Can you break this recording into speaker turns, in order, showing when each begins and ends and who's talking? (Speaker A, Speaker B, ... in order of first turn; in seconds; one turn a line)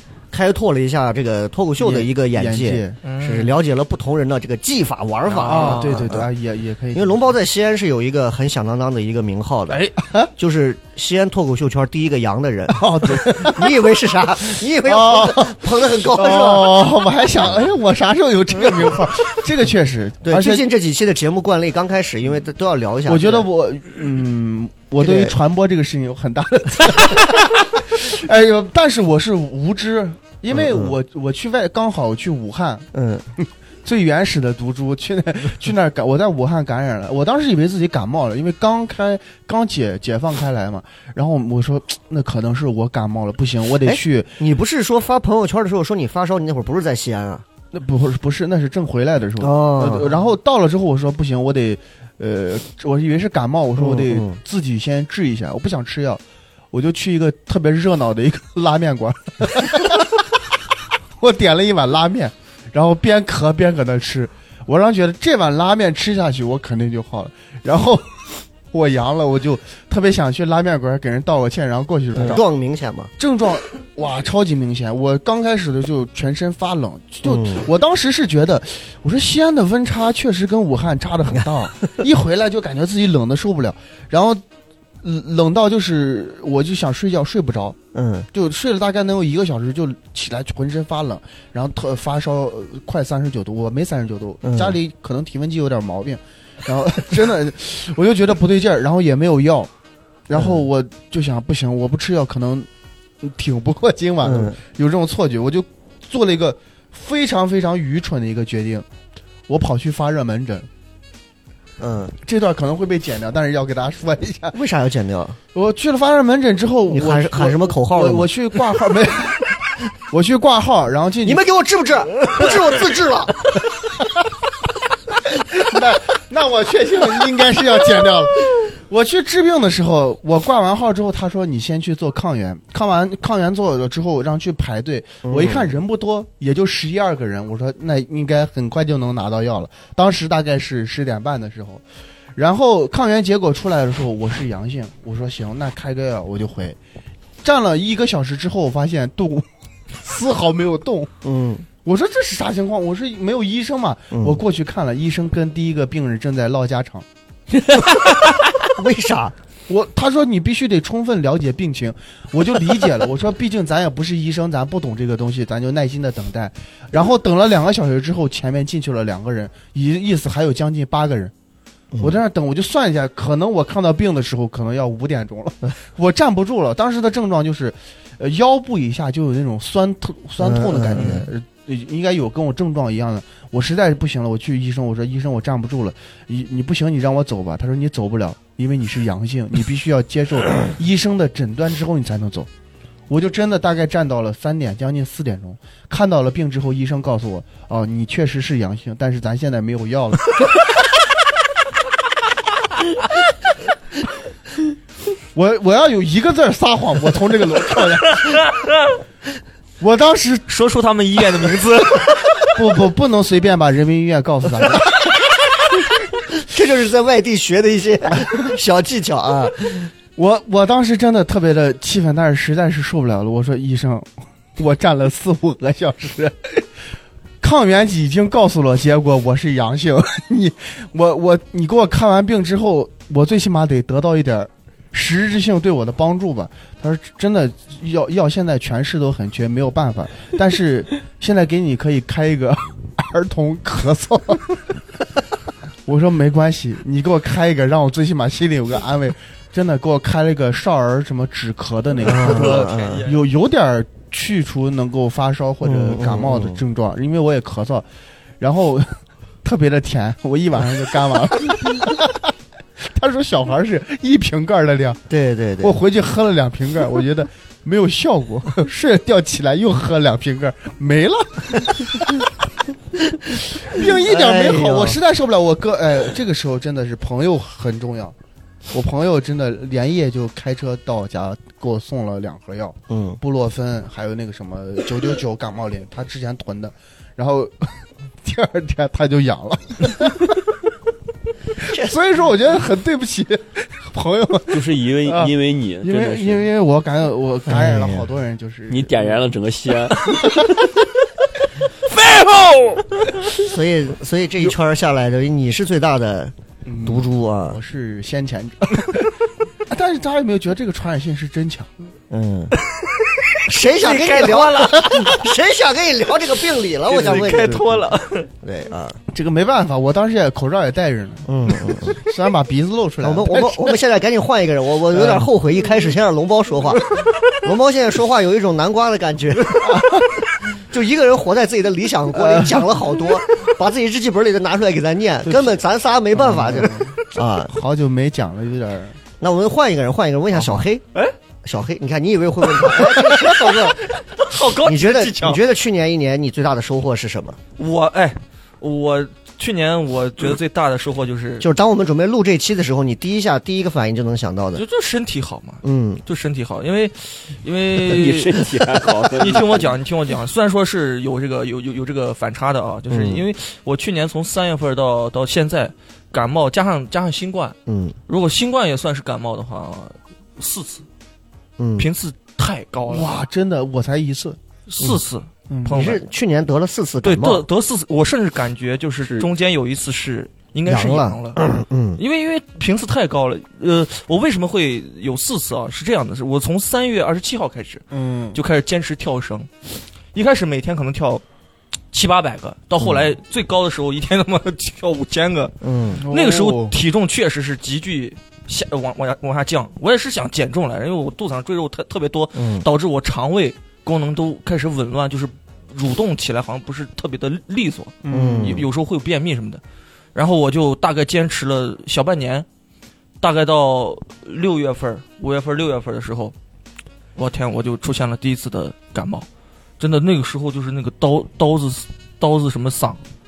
Speaker A: 0.3-6.3
Speaker B: 1.8-3.0
Speaker C: 3.0-3.5
Speaker C: 5.2-6.1
Speaker B: 5.4-7.3
Speaker A: 6.9-9.8
Speaker C: 9.7-9.9
Speaker B: 10.0-10.3
Speaker A: 10.4-16.8
Speaker B: 12.7-13.8
Speaker B: 14.8-20.6
Speaker A: 20.2-23.5
Speaker B: 23.1-44.4
Speaker A: 25.0-25.4
Speaker A: 30.5-30.9
Speaker A: 32.9-33.2
Speaker A: 43.8-47.4
Speaker B: 47.7-60.3
Speaker A: 49.4-50.1
Speaker A: 53.8-54.4
Speaker B: 61.2-72.4
Speaker A: 72.1-73.1
Speaker B: 73.2-84.4
Speaker A: 77.2-77.6
Speaker B: 85.0-87.8
Speaker A: 87.9-88.3
Speaker B: 88.3-99.7
Speaker A: 94.4-94.8
Speaker B: 100.3-102.7
Speaker A: 100.3-100.6
Speaker B: 103.2-108.8
Speaker A: 104.2-104.5
Speaker B: 109.5-110.7
Speaker A: 111.8-112.1
Speaker B: 112.2-114.5
Speaker A: 114.5-115.4
Speaker B: 115.5-121.4
Speaker A: 116.9-118.3
Speaker A: 121.2-123.5
Speaker B: 122.2-122.5
Speaker B: 125.3-141.8
Speaker A: 135.2-135.7
Speaker B: 142.3-146.8
Speaker B: 147.4-151.1
Speaker A: 151.2-151.7
Speaker B: 151.8-157.1
Speaker A: 154.1-154.4
Speaker A: 157.8-159.3
Speaker B: 159.7-171.3
Speaker A: 171.9-172.2
Speaker B: 172.0-192.5
Speaker A: 180.4-181.3
Speaker C: 181.0-181.2
Speaker B: 193.1-200.4
Speaker B: 205.3-208.4
Speaker C: 208.2-208.8
Speaker B: 209.8-210.5
Speaker C: 210.5-212.4
Speaker B: 212.5-215.1
Speaker A: 216.4-219.9
Speaker B: 220.2-226.7
Speaker B: 227.4-244.8
Speaker B: 245.8-257.9
Speaker A: 252.0-253.0
Speaker C: 252.1-253.2
Speaker A: 255.6-256.6
Speaker B: 258.4-265.0
Speaker A: 265.1-265.7
Speaker B: 265.6-272.3
Speaker B: 273.3-278.1
Speaker A: 274.0-275.0
Speaker B: 278.7-290.6
Speaker A: 282.9-283.2
Speaker B: 291.5-299.3
Speaker D: 294.5-296.4
Speaker A: 297.5-298.1
Speaker D: 298.7-300.9
Speaker C: 302.1-302.6
Speaker D: 302.1-302.8
Speaker A: 303.4-306.3
Speaker B: 306.6-309.1
Speaker A: 306.9-307.6
Speaker B: 309.6-311.7
Speaker A: 312.1-312.5
Speaker C: 313.4-315.3
Speaker A: 313.4-317.6
Speaker C: 316.9-318.3
Speaker B: 317.2-317.6
Speaker A: 318.4-319.0
Speaker B: 319.1-323.8
Speaker A: 321.3-322.0
Speaker A: 323.0-329.9
Speaker B: 324.9-325.3
Speaker B: 329.6-330.1
Speaker A: 330.7-337.5
Speaker B: 332.1-332.7
Speaker B: 335.2-336.9
Speaker B: 337.5-339.0
Speaker A: 339.2-340.8
Speaker B: 340.3-340.6
Speaker A: 341.4-343.8
Speaker C: 342.6-345.4
Speaker A: 344.6-347.4
Speaker C: 347.6-351.4
Speaker A: 351.4-354.6
Speaker C: 354.5-358.4
Speaker A: 355.6-356.0
Speaker D: 357.8-359.7
Speaker C: 359.1-367.6
Speaker A: 362.9-363.2
Speaker A: 367.7-367.9
Speaker C: 368.1-370.9
Speaker A: 371.6-371.9
Speaker C: 371.8-373.1
Speaker B: 372.9-374.4
Speaker C: 374.7-376.0
Speaker B: 375.5-375.9
Speaker A: 375.7-377.4
Speaker C: 377.0-381.4
Speaker A: 380.7-382.0
Speaker C: 382.0-389.5
Speaker B: 387.9-388.4
Speaker C: 390.1-391.2
Speaker C: 391.9-409.6
Speaker A: 395.6-396.0
Speaker B: 395.9-396.8
Speaker A: 402.3-402.6
Speaker B: 408.0-408.6
Speaker A: 408.1-408.6
Speaker C: 410.1-412.4
Speaker C: 413.2-416.3
Speaker C: 417.2-419.2
Speaker C: 419.8-423.0